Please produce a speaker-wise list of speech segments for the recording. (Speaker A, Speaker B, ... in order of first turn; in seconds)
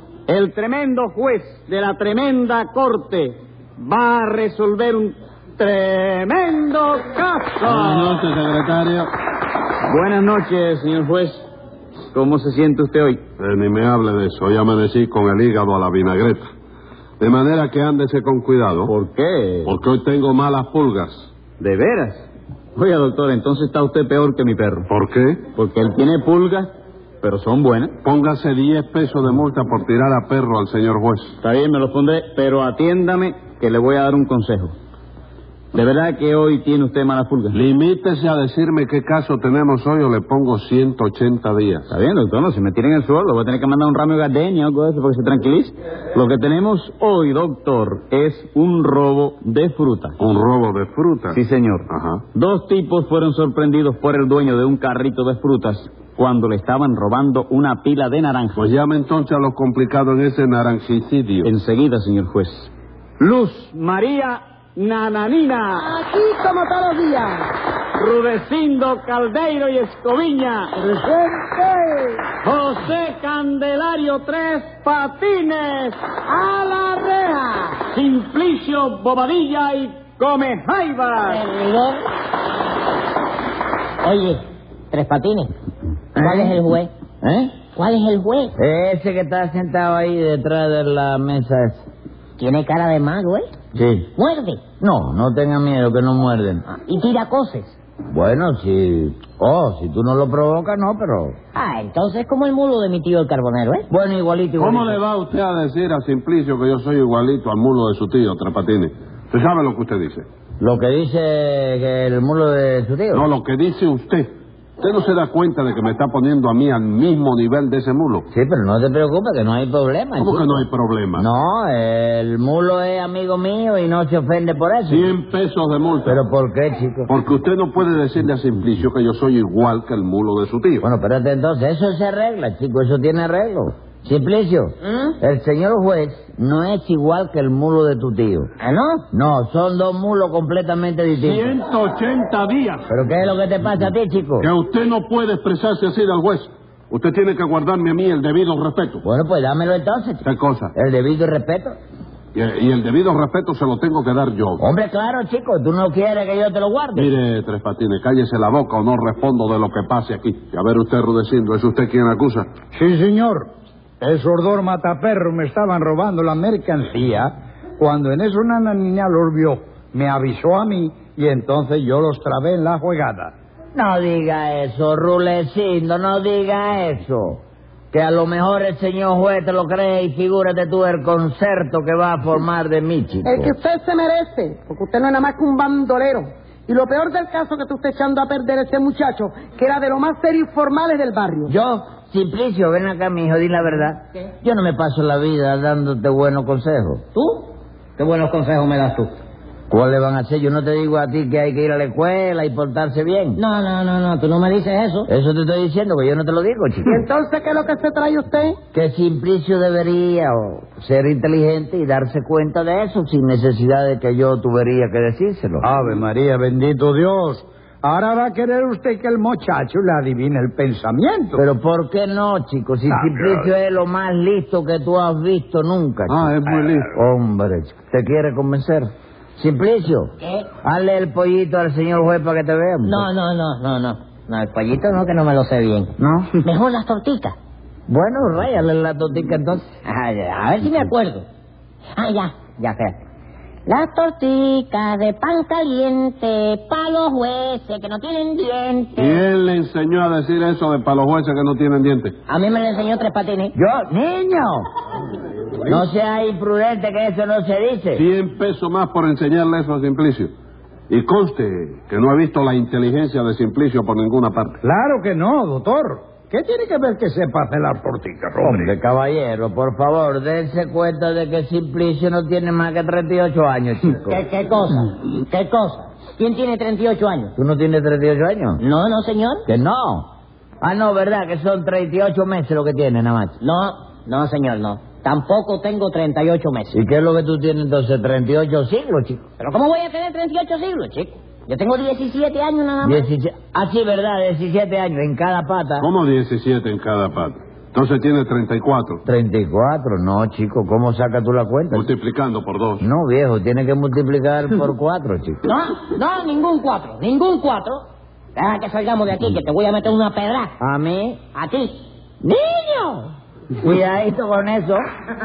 Speaker A: 0.3-8.3, 9.8-11.4, 12.1-13.2, 18.8-19.8, 21.6-24.9, 25.5-26.7, 27.2-27.9, 31.4-34.7, 35.7-37.6, 41.9-50.2, 51.3-58.6, 61.4-65.9, 68.0-71.3, 72.4-76.0, 77.9-81.4
Speaker B: 7.7-9.1, 13.4-16.5, 17.2-18.9, 19.6-21.3, 24.9-25.5, 28.0-31.3, 37.5-41.9, 50.2-52.2, 58.6-61.5, 104.6-110.3, 113.1-118.3, 120.2-121.3, 124.9-126.2, 127.1-130.8, 141.2-142.9, 144.4-149.0, 150.2-150.7, 152.3-154.6, 157.0-162.5, 226.1-226.9, 249.0-252.2, 257.9-260.3, 260.9-264.6, 295.8-299.0, 301.7-302.8
Speaker C: 65.8-67.5, 76.3-77.7, 183.2-191.5, 206.9-208.6
Speaker D: 81.2-82.0, 84.0-84.4, 84.9-85.5, 86.2-86.9, 87.8-88.5, 92.4-93.5, 94.2-94.6, 96.7-97.8, 101.5-103.9, 138.6-139.0, 197.1-199.1, 203.4-205.1, 230.2-230.5, 232.8-237.3, 239.8-241.2, 242.0-243.0, 243.7-249.2, 252.3-253.5, 274.1-277.3, 278.6-279.4, 283.4-286.8, 289.4-293.1, 305.5-307.9, 308.4-310.5, 311.4-311.8
Speaker E: 86.2-86.6, 87.2-87.6, 88.6-91.9, 93.7-94.1, 94.8-96.7, 98.1-101.4, 103.9-105.0, 110.6-113.3, 118.3-125.2, 126.1-127.1, 130.8-138.5, 139.1-141.6, 142.9-144.5, 149.0-151.8, 154.6-157.1, 173.8-177.4, 177.9-183.5, 191.5-197.0, 199.7-203.4, 205.1-207.0, 208.7-215.7, 221.4-226.3, 226.9-230.1, 230.6-233.1, 236.0-236.3, 237.9-239.7, 253.6-254.7, 255.7-258.0, 268.4-274.2, 277.4-278.6, 279.5-280.1, 280.6-283.4, 286.7-289.2, 292.8-295.9, 299.1-301.9, 302.8-305.4, 310.6-311.2, 312.2-314.8
Speaker F: 162.7-163.5, 164.0-173.3, 215.6-221.4, 222.9-223.5, 264.6-268.7